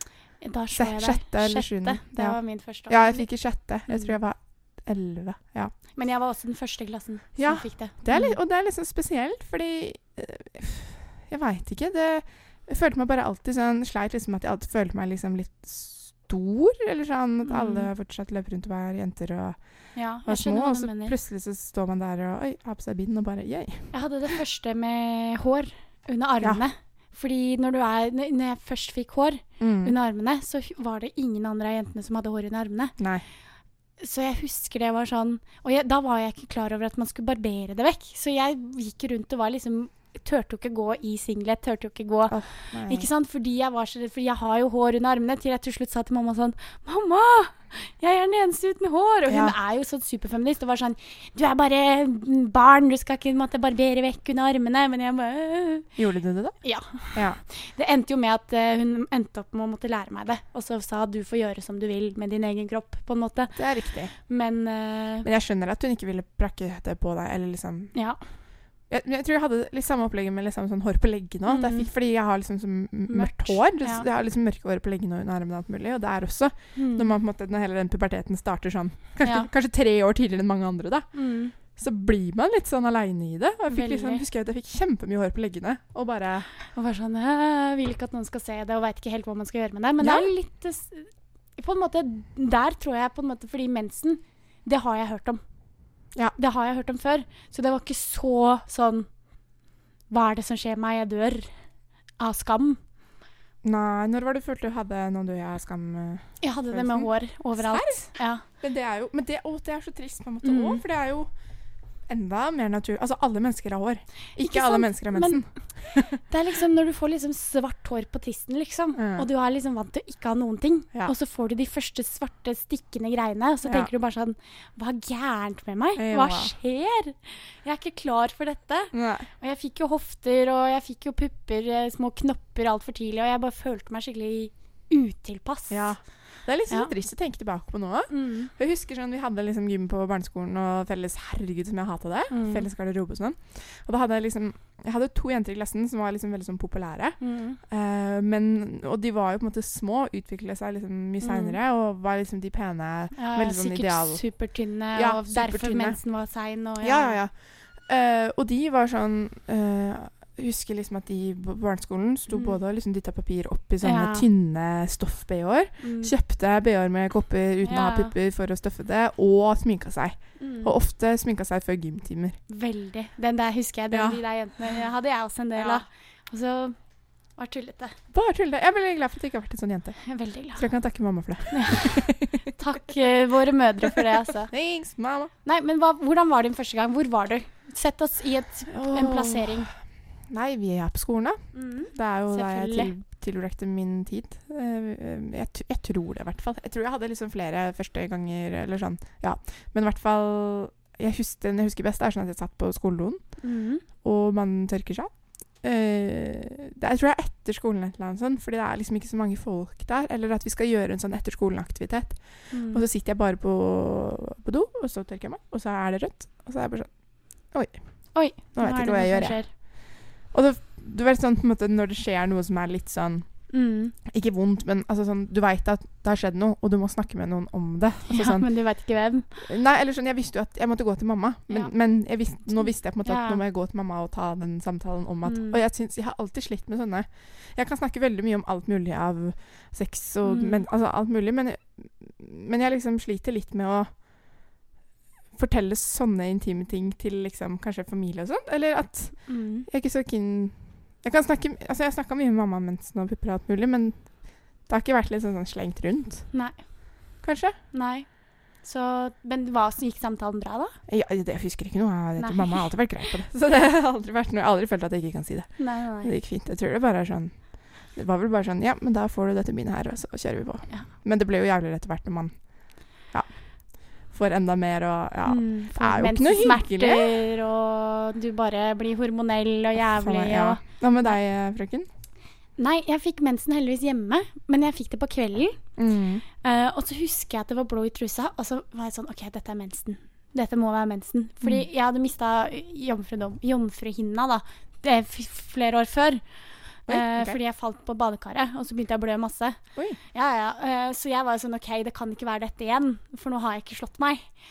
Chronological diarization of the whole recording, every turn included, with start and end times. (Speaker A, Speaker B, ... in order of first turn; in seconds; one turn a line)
Speaker A: 0.4-3.3
Speaker B: 0.8-5.7
Speaker A: 3.9-4.1
Speaker A: 6.0-8.4
Speaker B: 7.4-19.6
Speaker A: 17.4-17.9
Speaker A: 19.9-21.1
Speaker B: 20.3-23.9
Speaker A: 23.9-33.0
Speaker B: 29.6-29.9
Speaker B: 33.0-33.2
Speaker A: 34.0-42.4
Speaker B: 42.3-43.1
Speaker A: 42.9-55.9
Speaker B: 49.3-49.5
Speaker B: 56.0-56.6
Speaker A: 56.6-63.6
Speaker B: 57.1-57.4
Speaker B: 63.6-64.1
Speaker A: 64.2-65.3
Speaker B: 65.2-68.0
Speaker A: 67.9-68.2
Speaker B: 68.9-81.1
Speaker A: 71.5-71.9
Speaker A: 73.1-74.0
Speaker A: 76.8-77.2
Speaker A: 79.2-79.5
Speaker A: 81.1-81.5
Speaker B: 81.7-86.5
Speaker A: 83.7-84.2
Speaker A: 86.7-95.4
Speaker B: 90.0-90.3
Speaker A: 96.4-99.1
Speaker A: 100.1-101.5
Speaker A: 102.2-102.8
Speaker B: 103.6-111.3
Speaker A: 106.4-108.4
Speaker A: 110.4-110.8
Speaker B: 112.1-116.2
Speaker A: 114.4-115.4
Speaker A: 116.3-135.9
Speaker B: 119.0-119.3
Speaker B: 123.6-123.9
Speaker B: 126.0-126.5
Speaker B: 128.9-129.3
Speaker B: 135.7-154.2
Speaker A: 138.1-138.5
Speaker A: 142.3-142.7
Speaker A: 147.2-147.6
Speaker A: 151.2-151.6
Speaker A: 153.2-157.2
Speaker B: 154.9-156.0
Speaker B: 156.8-157.3
Speaker B: 157.8-172.4
Speaker A: 163.8-164.3
Speaker A: 165.8-166.1
Speaker A: 167.6-168.1
Speaker A: 170.4-170.7
Speaker A: 172.5-176.8
Speaker B: 173.9-174.2
Speaker B: 175.6-175.8
Speaker A: 177.4-177.9
Speaker B: 178.1-180.0
Speaker A: 180.0-180.7
Speaker B: 180.6-182.4
Speaker A: 181.5-184.5
Speaker B: 184.5-185.3
Speaker A: 185.4-189.7
Speaker B: 188.7-189.7
Speaker B: 190.3-203.2
Speaker A: 191.5-192.9
Speaker A: 203.4-203.8
Speaker B: 204.0-205.1
Speaker B: 205.6-216.9
Speaker A: 212.5-212.8
Speaker A: 218.2-219.5
Speaker B: 218.5-219.4
Speaker B: 220.3-223.3
Speaker A: 223.5-223.9
Speaker B: 224.1-228.5
Speaker A: 228.1-229.3
Speaker B: 229.4-243.9
Speaker A: 233.1-233.4
Speaker A: 235.3-235.6
Speaker A: 240.2-240.6
Speaker B: 245.4-254.0
Speaker A: 249.3-249.7
Speaker B: 254.7-256.3
Speaker B: 257.2-257.6
Speaker A: 257.7-258.1
Speaker A: 258.6-260.8
Speaker B: 260.9-267.4
Speaker A: 262.2-262.6
Speaker A: 265.6-266.1
Speaker B: 267.9-272.4
Speaker B: 274.1-277.2
Speaker A: 275.3-280.6
Speaker B: 279.8-281.9
Speaker A: 282.6-285.6
Speaker B: 285.8-286.2
Speaker A: 286.4-296.2
Speaker B: 296.9-297.4
Speaker A: 296.9-299.6
Speaker A: 300.1-304.2